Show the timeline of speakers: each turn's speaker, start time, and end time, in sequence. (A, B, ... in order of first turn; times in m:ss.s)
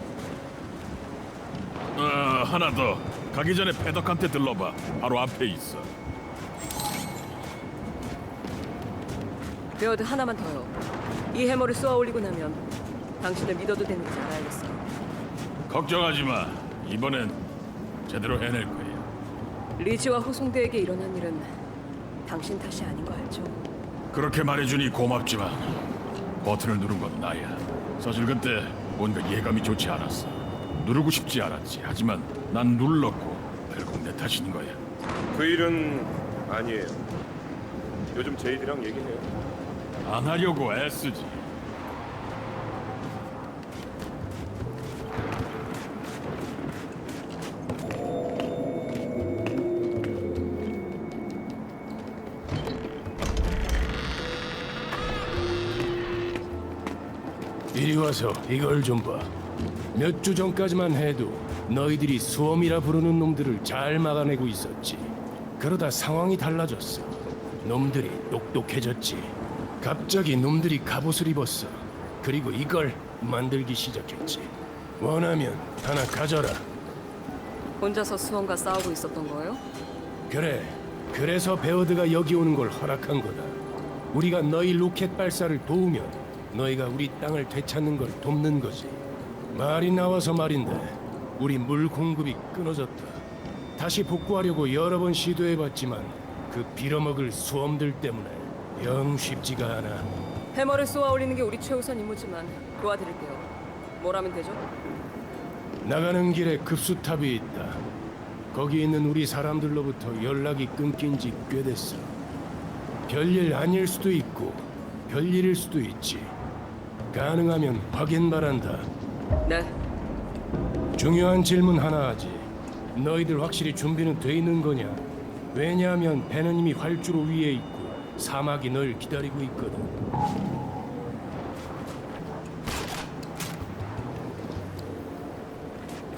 0:02.0-0:05.9 A
0:09.8-0:10.8 B
0:11.3-0:12.6 B
0:13.2-0:14.8 B
0:15.7-0:17.4 A
0:18.1-0:19.1 A
0:19.8-0:21.5 B
0:22.3-0:23.6 B
0:24.1-0:25.8 A
0:26.4-0:34.8 A
0:35.3-0:37.0 C
0:38.1-0:39.3 C
0:40.0-0:41.4 A
0:57.7-0:59.3 D
0:59.9-1:16.7 D
1:17.8-1:19.6 B
1:20.3-1:23.6 D
1:24.1-1:29.0 D
1:29.5-1:33.2 D
1:33.8-1:40.1 D
1:40.5-1:44.7 B
1:45.8-1:47.8 D
1:48.5-1:52.1 D
1:53.1-1:56.4 D
1:57.1-1:58.9 D
1:59.4-1:59.7 B
2:01.0-2:10.0 D